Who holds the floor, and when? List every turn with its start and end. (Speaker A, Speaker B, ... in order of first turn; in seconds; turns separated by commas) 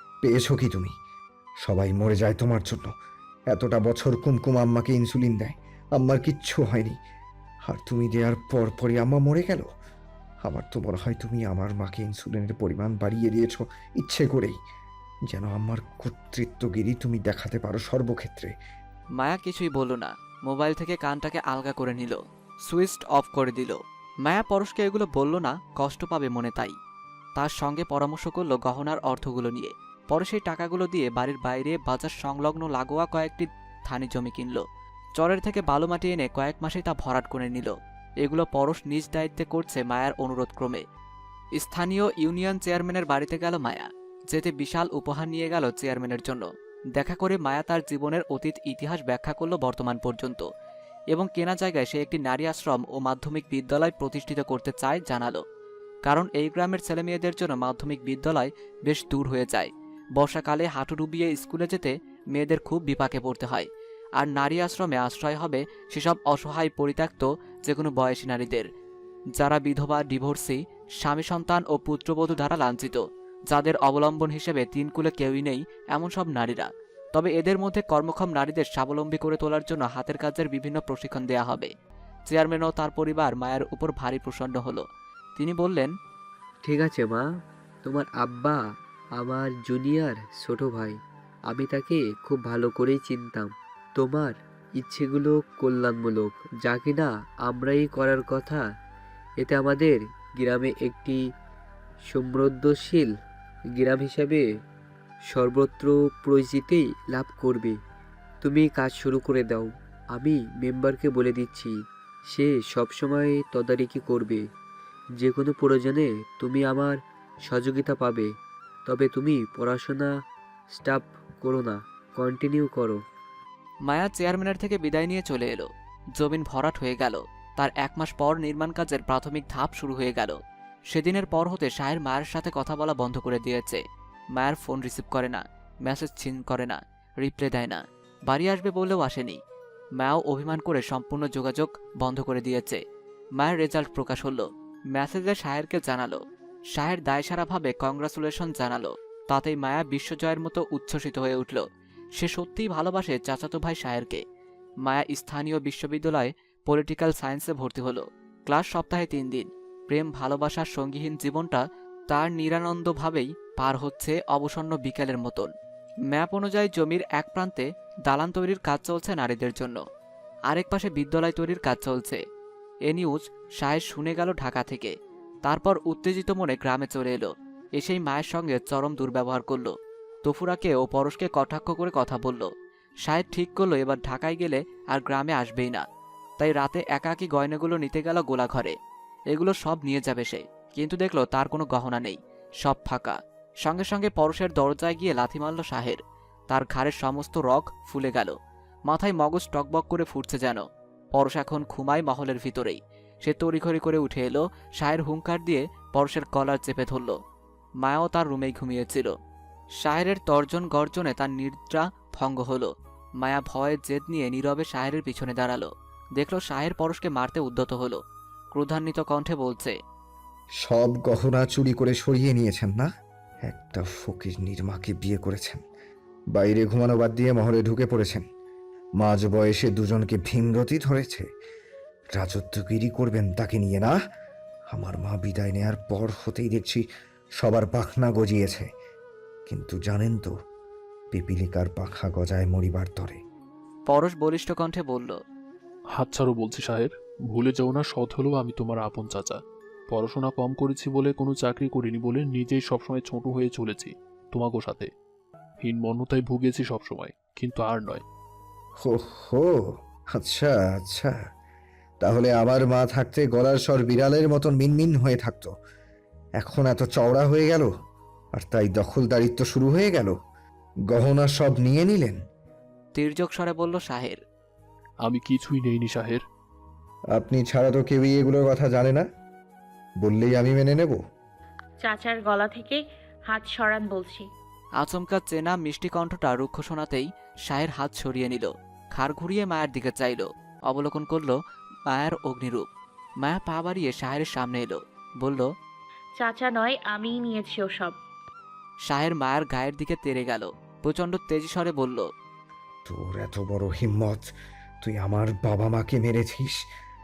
Speaker A: 0.2-0.9, Speaker A: 1.6-2.9, Speaker A: 3.5-7.0, Speaker A: 7.7-9.7, Speaker A: 10.4-14.5, Speaker A: 15.3-18.5, Speaker B: 19.2-26.7, Speaker B: 27.4-34.6, Speaker B: 35.2-40.8, Speaker B: 41.6-50.4, Speaker B: 51.1-55.4, Speaker B: 56.0-63.7, Speaker B: 64.2-68.7, Speaker B: 69.4-81.7, Speaker B: 82.3-84.8, Speaker B: 85.3-85.9, Speaker C: 86.6-87.2, Speaker C: 87.8-88.6, Speaker C: 89.2-98.6, Speaker C: 99.4-101.2, Speaker C: 102.1-103.1, Speaker C: 103.7-104.4, Speaker C: 105.2-107.8, Speaker C: 108.4-111.8, Speaker C: 112.3-114.5, Speaker C: 115.2-118.3, Speaker C: 118.8-120.1, Speaker C: 120.7-123.0, Speaker B: 123.8-130.4, Speaker B: 130.9-133.8, Speaker B: 134.3-139.4, Speaker B: 140.0-142.8, Speaker B: 143.4-146.2, Speaker B: 146.7-151.6, Speaker B: 152.2-154.2, Speaker B: 154.8-165.5, Speaker B: 166.1-169.8, Speaker B: 170.5-172.2, Speaker B: 172.9-174.9, Speaker B: 175.4-179.7, Speaker B: 180.2-182.5, Speaker B: 183.1-185.8, Speaker B: 186.4-188.7, Speaker B: 189.3-198.3, Speaker B: 198.9-200.6, Speaker B: 201.2-207.2, Speaker B: 207.8-209.1, Speaker B: 209.8-218.0, Speaker B: 218.5-219.7, Speaker A: 220.6-222.9, Speaker A: 223.4-225.6, Speaker A: 226.3-228.2, Speaker A: 229.0-231.2, Speaker A: 232.2-233.9, Speaker A: 234.7-236.8, Speaker A: 237.4-238.7, Speaker A: 239.5-240.3, Speaker A: 241.1-243.2, Speaker B: 243.9-245.2, Speaker D: 245.9-254.9, Speaker D: 255.6-258.0, Speaker A: 258.8-259.5, Speaker A: 260.1-261.1, Speaker A: 262.0-265.5, Speaker A: 266.4-267.7, Speaker A: 268.4-270.1, Speaker A: 270.9-272.1, Speaker B: 272.9-274.2, Speaker D: 275.0-276.2, Speaker A: 277.1-279.0, Speaker A: 280.0-281.0, Speaker E: 281.8-284.3, Speaker B: 284.8-291.4, Speaker B: 291.9-292.6, Speaker B: 293.2-295.5, Speaker E: 296.2-297.9, Speaker B: 298.9-302.1, Speaker A: 302.9-304.3, Speaker A: 304.8-306.6